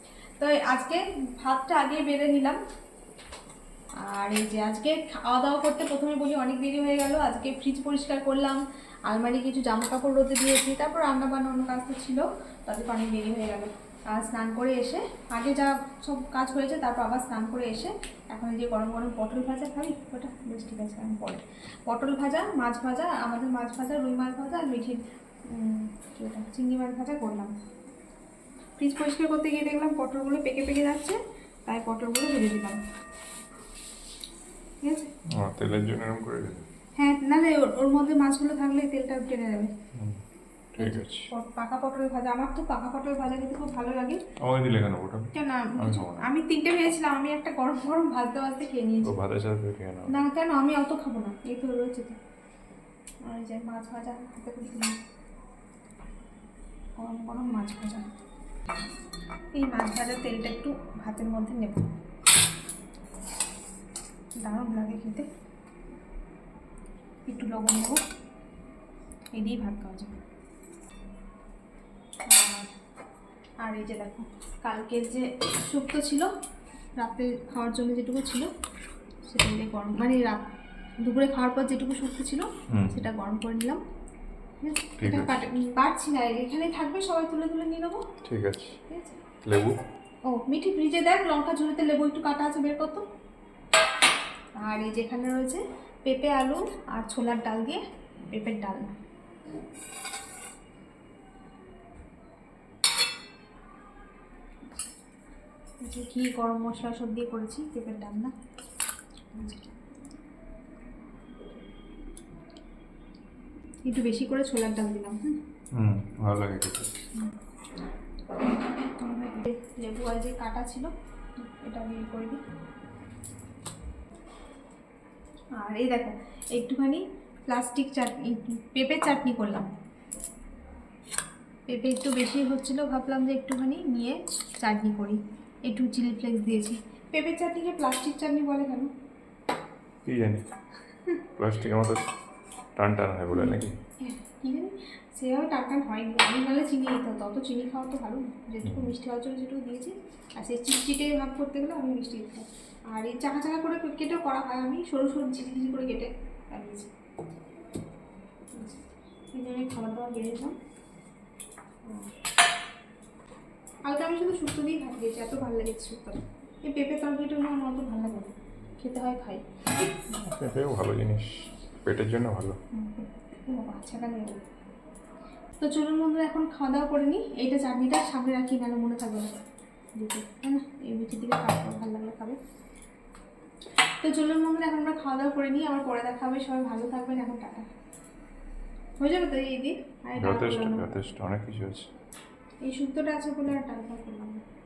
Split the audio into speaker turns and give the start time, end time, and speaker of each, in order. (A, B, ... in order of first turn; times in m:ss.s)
0:00.4-0:02.6 A
0:04.0-0:27.5 A
0:28.8-0:32.8 A
0:34.8-0:35.1 A
0:35.4-0:36.6 B
0:37.0-0:39.7 A
0:39.9-0:40.2 B
0:40.7-0:41.3 B
0:40.8-0:44.2 A
0:44.4-0:46.3 B
0:45.3-0:49.1 A
0:49.0-0:50.1 B
0:50.1-0:52.2 A
0:53.2-0:55.0 A
0:57.0-0:58.0 A
0:59.5-1:01.9 A
1:04.4-1:05.2 A
1:07.3-1:08.0 A
1:09.3-1:10.1 A
1:12.3-1:12.7 A
1:13.6-1:16.3 A
1:17.0-1:18.5 A
1:19.3-1:20.4 A
1:21.0-1:23.8 A
1:22.7-1:23.0 B
1:24.6-1:28.0 A
1:25.0-1:25.4 B
1:28.2-1:28.8 B
1:28.9-1:29.2 A
1:29.4-1:29.8 B
1:30.3-1:33.0 A
1:34.6-1:39.0 A
1:45.8-1:48.3 A
1:49.3-1:49.7 A
1:53.8-1:55.4 A
1:55.7-1:56.9 B
1:59.0-2:02.4 A
2:05.6-2:09.7 A
2:11.7-2:18.9 A
2:20.0-2:20.4 B
2:21.4-2:22.0 B
2:22.8-2:23.7 B
2:23.3-2:36.9 A
2:28.6-2:28.9 B
2:38.5-2:40.6 A
2:41.8-2:42.1 A
2:43.8-2:49.4 A
2:50.1-2:52.6 B
2:52.7-2:54.4 A
2:55.6-2:59.4 A
2:59.9-3:02.4 A
3:04.0-3:07.6 A
3:09.0-3:10.9 A
3:10.2-3:11.9 B
3:12.6-3:14.4 A